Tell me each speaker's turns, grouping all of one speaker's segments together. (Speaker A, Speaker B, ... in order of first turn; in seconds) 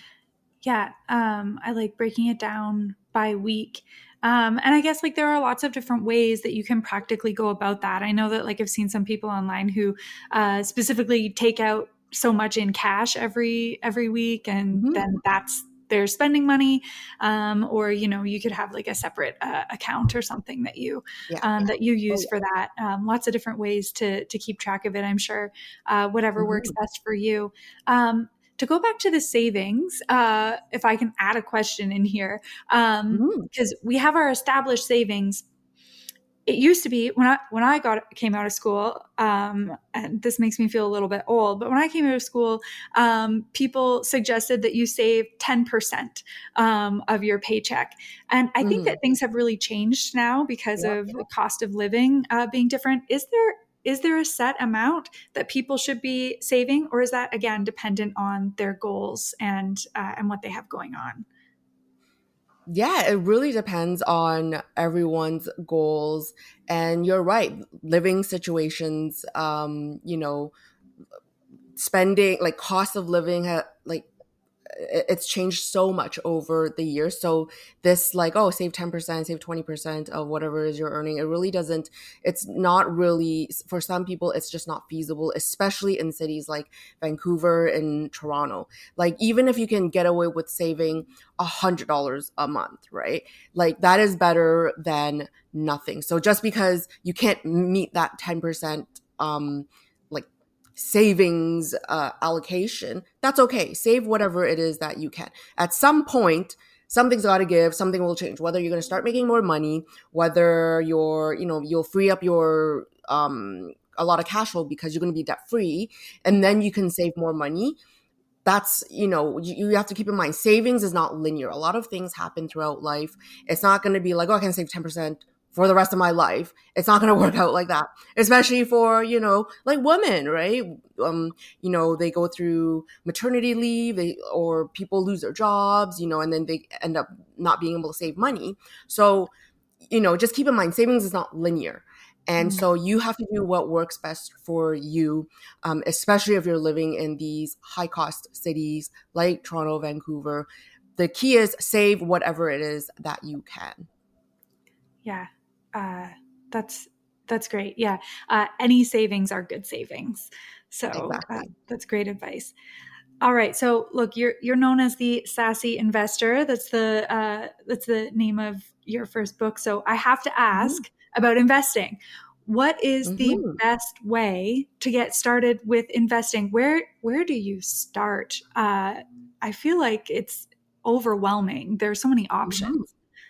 Speaker A: 0.6-35.4, 36.5-61.2, 142.4-142.6, 155.0-162.5, 163.2-182.8
Speaker B: 14.7-15.1, 21.3-22.3, 26.4-26.7, 33.1-33.5, 48.6-49.0, 62.7-70.5, 71.8-74.1, 74.7-117.8, 118.4-139.3, 139.9-153.8, 160.9-161.5, 170.5-170.8, 173.1-173.6, 182.4-182.8